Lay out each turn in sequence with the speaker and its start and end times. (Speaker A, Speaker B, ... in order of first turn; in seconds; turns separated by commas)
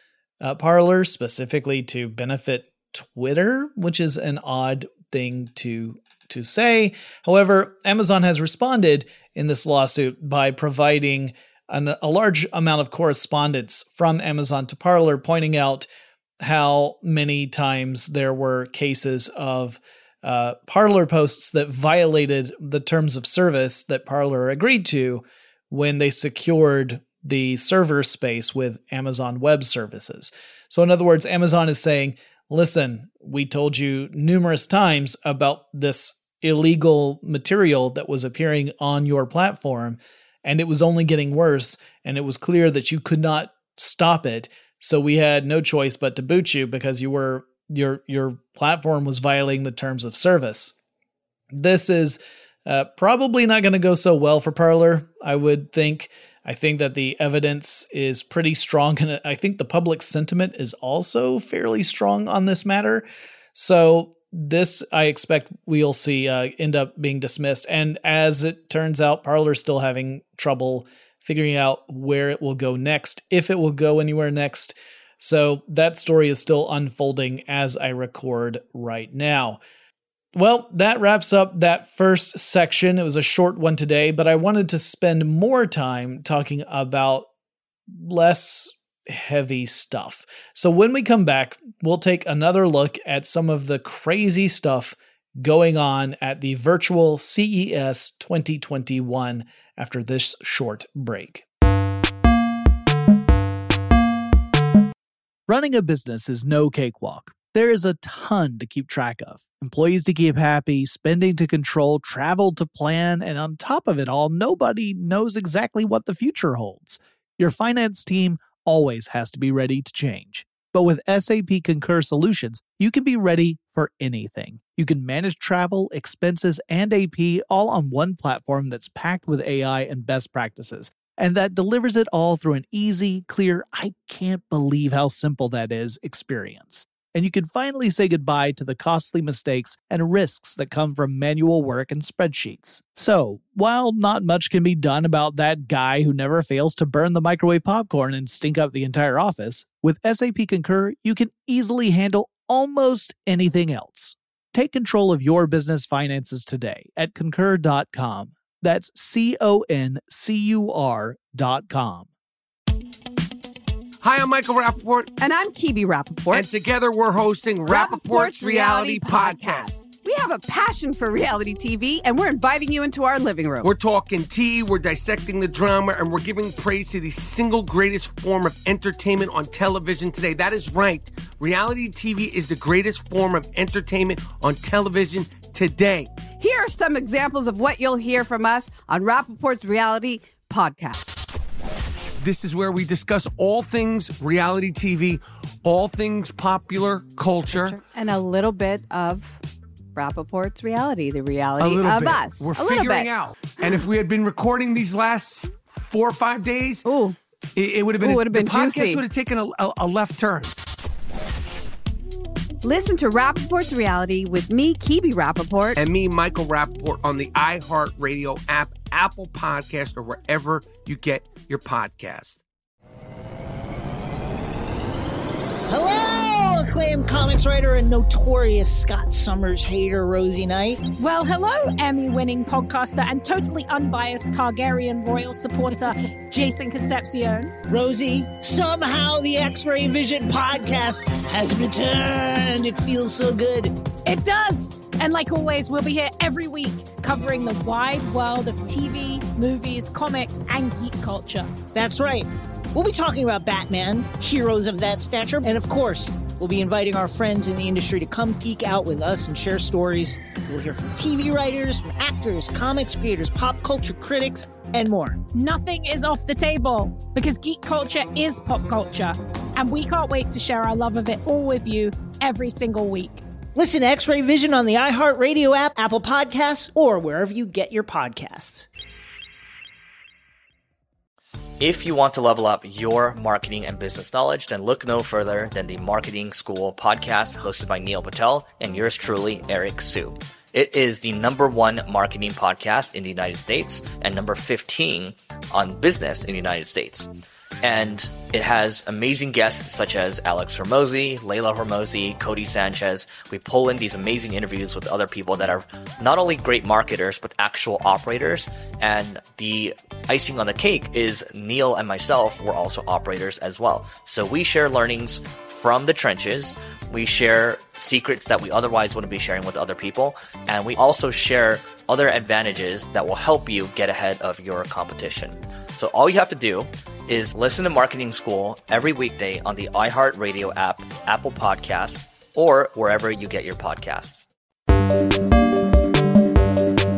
Speaker A: 0.4-15.9, Speaker A: 16.4-50.7, Speaker A: 51.5-79.6, Speaker A: 80.3-87.3, Speaker A: 87.9-101.4, Speaker A: 105.5-162.1, Speaker B: 164.0-165.1, Speaker C: 165.2-166.5, Speaker B: 166.3-169.8, Speaker C: 167.7-173.7, Speaker B: 173.6-186.1, Speaker C: 186.3-191.1, Speaker B: 192.2-197.8, Speaker C: 197.5-199.4, Speaker C: 199.9-203.1, Speaker B: 201.6-206.8, Speaker C: 206.8-207.2, Speaker B: 207.5-210.5, Speaker C: 208.0-209.0, Speaker C: 212.6-215.8, Speaker B: 215.8-222.4, Speaker D: 225.7-230.8, Speaker E: 231.0-237.5, Speaker D: 237.7-243.7, Speaker E: 244.1-251.5, Speaker D: 251.7-265.2, Speaker E: 265.4-273.2, Speaker D: 273.5-278.7, Speaker F: 281.6-297.1, Speaker F: 297.6-334.2